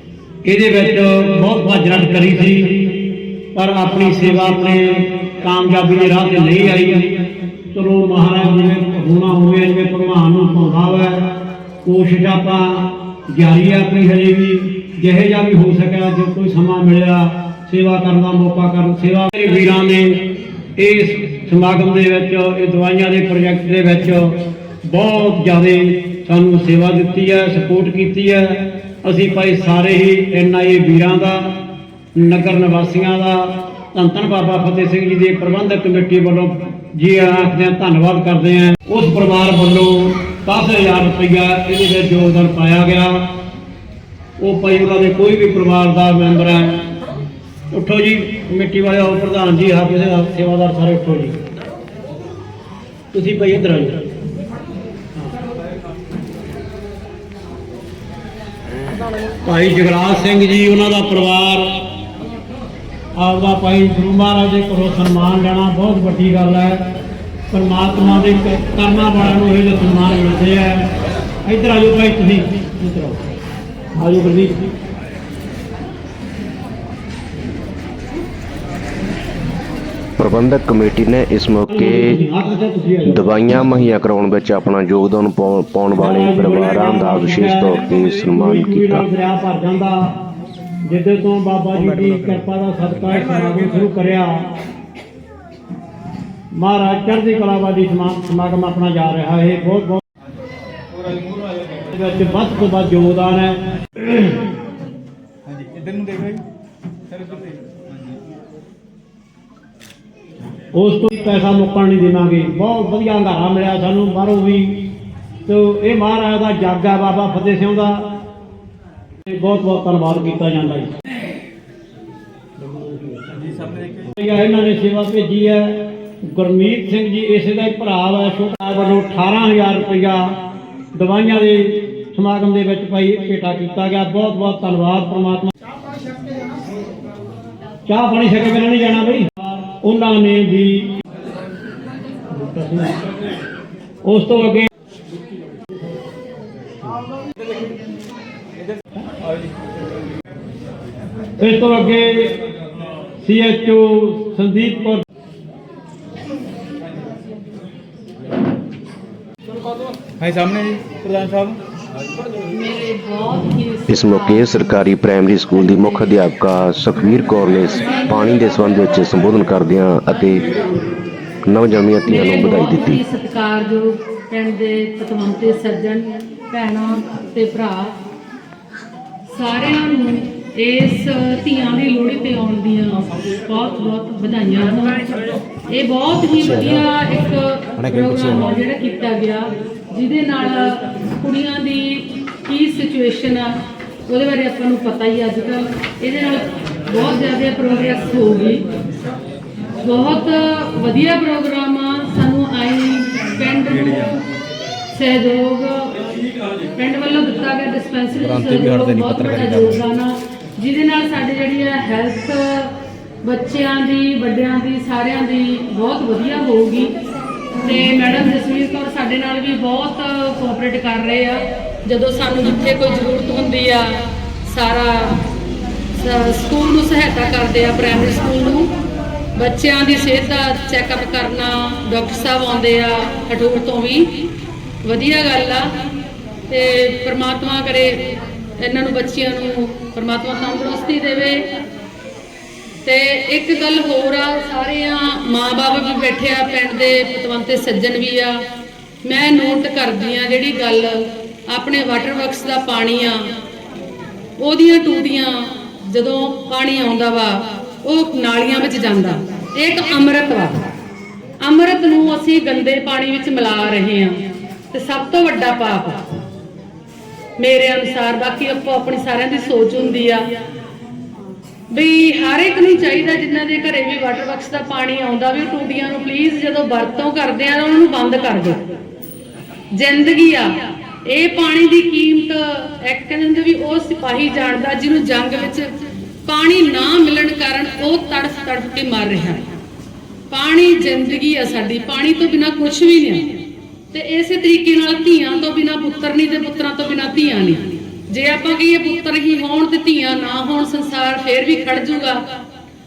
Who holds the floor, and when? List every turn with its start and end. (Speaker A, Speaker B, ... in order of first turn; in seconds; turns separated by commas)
Speaker A: 0.4-43.4, Speaker A: 44.4-46.9, Speaker A: 47.7-51.4, Speaker A: 53.1-54.0, Speaker A: 59.4-61.7, Speaker A: 63.1-66.9, Speaker A: 67.5-70.9, Speaker A: 71.5-73.2, Speaker A: 74.0-74.7, Speaker B: 80.2-82.2, Speaker A: 81.7-83.3, Speaker B: 83.0-89.1, Speaker A: 86.0-90.2, Speaker A: 90.8-94.5, Speaker A: 96.5-100.0, Speaker A: 101.8-104.4, Speaker C: 105.9-106.3, Speaker A: 110.7-114.9, Speaker A: 115.5-118.1, Speaker A: 119.2-120.9, Speaker A: 122.6-130.4, Speaker A: 130.9-135.5, Speaker A: 137.9-140.9, Speaker A: 142.3-143.0, Speaker A: 144.0-144.7, Speaker A: 151.4-152.4, Speaker A: 153.2-155.0, Speaker C: 160.2-161.6, Speaker D: 162.5-164.8, Speaker B: 163.9-170.5, Speaker D: 165.6-166.0, Speaker B: 171.5-173.0, Speaker D: 172.1-177.9, Speaker D: 179.3-185.1, Speaker D: 185.7-193.6, Speaker D: 194.1-198.6, Speaker D: 199.8-204.2, Speaker D: 204.9-206.0, Speaker D: 206.8-216.9, Speaker C: 208.4-209.4, Speaker D: 217.6-225.2, Speaker D: 226.0-228.7, Speaker D: 229.4-234.2, Speaker D: 234.8-235.7, Speaker D: 236.5-241.5, Speaker D: 242.8-248.4, Speaker D: 249.1-253.3, Speaker D: 254.4-260.6, Speaker D: 261.4-266.1, Speaker D: 267.4-270.2, Speaker D: 271.7-278.6, Speaker D: 279.7-285.7, Speaker D: 286.3-289.5, Speaker D: 290.3-293.4, Speaker D: 293.9-302.2